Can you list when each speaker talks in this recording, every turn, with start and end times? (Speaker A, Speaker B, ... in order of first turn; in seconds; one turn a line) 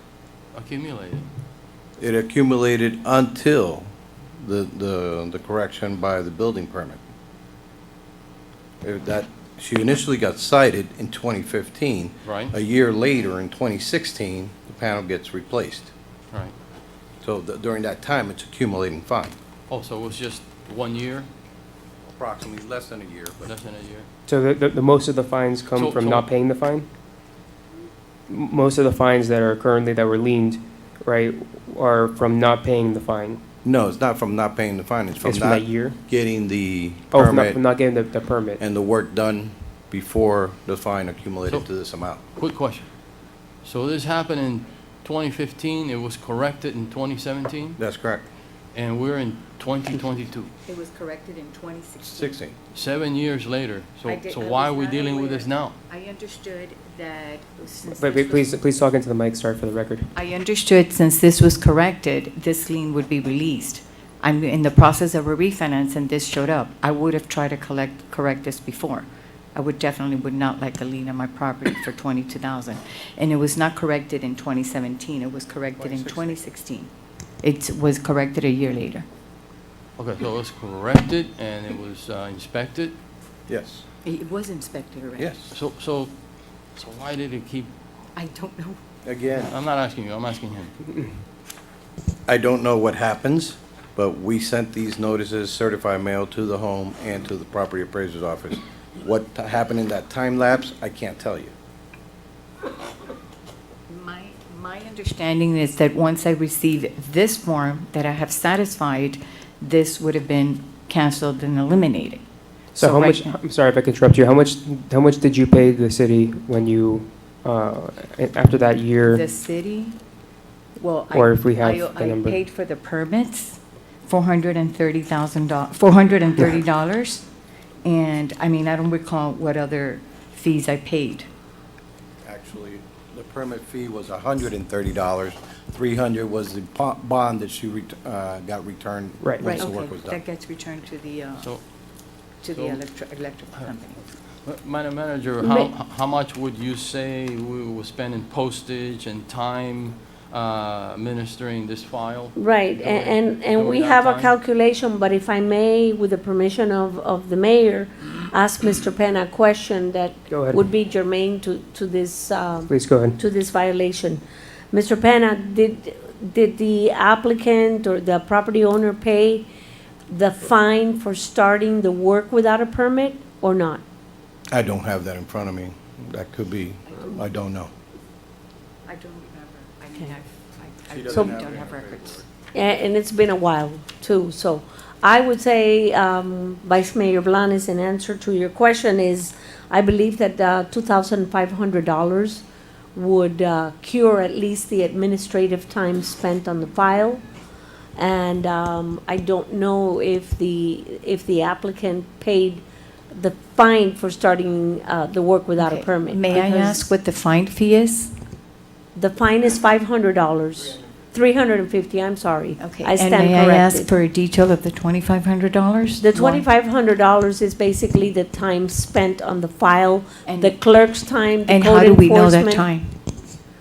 Speaker A: 0.5-1.3
Speaker B: 2.0-3.9
Speaker B: 4.4-7.0
Speaker B: 8.8-15.9
Speaker A: 12.2-12.5
Speaker B: 17.2-19.3
Speaker A: 19.7-21.3
Speaker B: 22.1-23.5
Speaker A: 23.4-24.1
Speaker C: 24.3-26.9
Speaker A: 25.7-26.3
Speaker C: 28.3-33.4
Speaker B: 33.6-37.6
Speaker C: 35.2-36.0
Speaker C: 37.1-38.6
Speaker B: 38.6-42.2
Speaker A: 42.4-42.9
Speaker A: 43.6-47.8
Speaker B: 47.8-48.2
Speaker A: 48.7-50.5
Speaker D: 50.6-52.4
Speaker B: 52.1-52.5
Speaker A: 52.7-55.7
Speaker D: 54.0-58.6
Speaker C: 58.0-60.1
Speaker D: 60.1-76.9
Speaker B: 75.8-76.4
Speaker D: 77.4-79.0
Speaker A: 80.0-82.9
Speaker B: 83.5-83.8
Speaker D: 84.0-85.3
Speaker B: 85.2-85.5
Speaker A: 85.5-86.1
Speaker A: 86.7-87.7
Speaker D: 88.2-88.8
Speaker B: 89.0-89.5
Speaker A: 89.5-90.7
Speaker B: 92.3-101.5
Speaker D: 103.9-112.2
Speaker D: 112.7-113.4
Speaker C: 112.7-119.2
Speaker D: 119.0-120.0
Speaker D: 120.8-127.2
Speaker C: 121.1-122.4
Speaker D: 127.8-131.3
Speaker B: 132.2-140.2
Speaker C: 139.2-139.5
Speaker D: 139.4-141.6
Speaker D: 142.4-144.0
Speaker A: 142.5-142.8
Speaker A: 144.4-154.3
Speaker E: 145.4-145.7
Speaker E: 152.3-164.2
Speaker C: 160.3-160.6
Speaker C: 162.7-163.2
Speaker E: 164.7-169.5
Speaker E: 170.1-173.8
Speaker B: 174.5-177.7
Speaker D: 178.8-182.2
Speaker B: 180.9-182.2
Speaker E: 181.1-181.4
Speaker E: 182.5-192.4
Speaker E: 192.9-197.2
Speaker E: 197.9-206.9
Speaker D: 205.6-208.1
Speaker E: 208.9-213.9
Speaker D: 212.6-216.4
Speaker E: 216.0-222.7
Speaker D: 220.2-220.6
Speaker D: 221.4-223.0